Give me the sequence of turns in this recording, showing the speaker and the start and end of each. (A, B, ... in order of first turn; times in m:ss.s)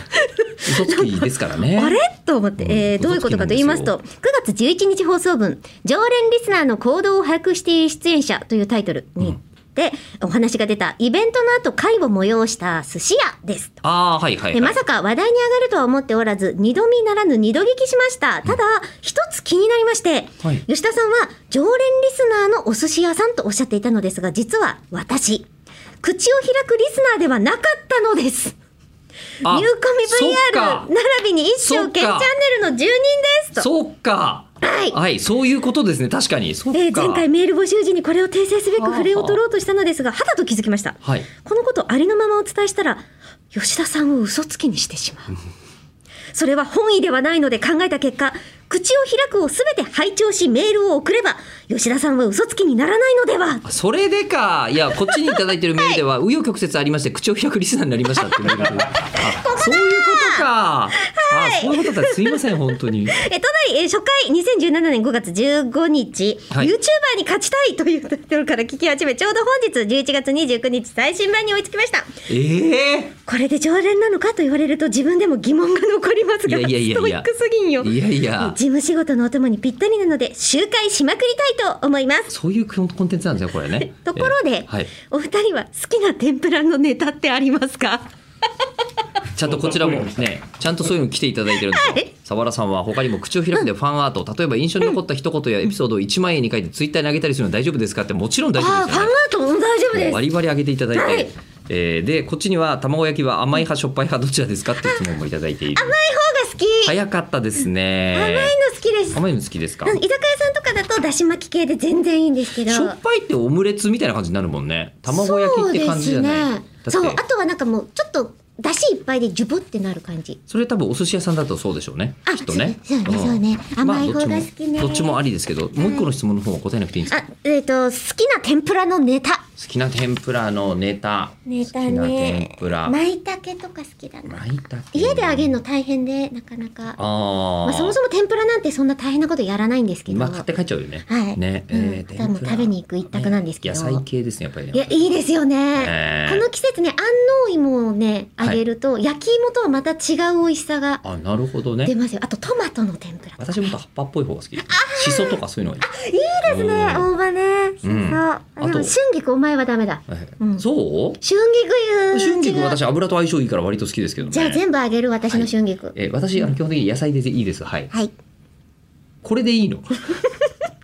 0:00.1-0:13.8 A
0:00.6-0:02.0 B
0:02.6-0:03.9 B
0:13.8-0:14.8 B
0:14.5-0:25.5 A
0:26.0-0:28.6 A
0:29.4-0:30.9 B
0:29.4-0:33.6 A
0:31.6-0:32.3 B
0:33.6-0:37.2 B
0:34.6-0:35.0 A
0:36.7-0:45.4 A
0:38.7-0:39.4 B
0:46.3-0:53.6 A
0:53.6-1:03.2 B
0:59.1-1:00.4 A
1:01.0-1:12.2 A
1:12.3-1:13.2 B
1:13.2-1:22.3 A
1:16.4-1:18.6 B
1:22.3-1:24.9 B
1:23.8-1:28.1 A
1:29.3-1:39.1 B
1:31.6-1:32.1 A
1:38.6-1:40.2 A
1:39.9-1:45.9 B
1:40.9-1:41.3 A
1:45.7-1:47.0 A
1:46.8-1:48.6 B
1:48.1-1:49.2 A
1:49.1-1:50.0 B
1:49.8-1:53.0 A
1:52.6-1:57.2 B
1:55.1-2:00.4 A
2:00.5-2:07.2 B
2:02.2-2:05.1 A
2:07.1-2:09.4 A
2:09.6-2:13.0 B
2:11.5-2:14.4 A
2:14.3-2:15.6 B
2:14.9-2:17.0 A
2:17.0-2:18.0 B
2:17.6-2:20.5 A
2:20.1-2:25.1 B
2:21.0-2:24.0 A
2:24.7-2:31.0 A
2:25.8-2:26.4 B
2:31.0-2:31.9 B
2:31.8-2:33.7 A
2:33.4-2:35.9 B
2:34.6-2:40.6 A
2:36.4-2:37.1 B
2:37.8-2:38.9 B
2:40.1-2:41.2 B
2:41.2-2:42.8 A
2:42.1-2:44.6 B
2:44.3-2:46.5 A
2:45.3-2:47.9 B
2:49.2-2:50.0 B
2:50.2-2:50.5 A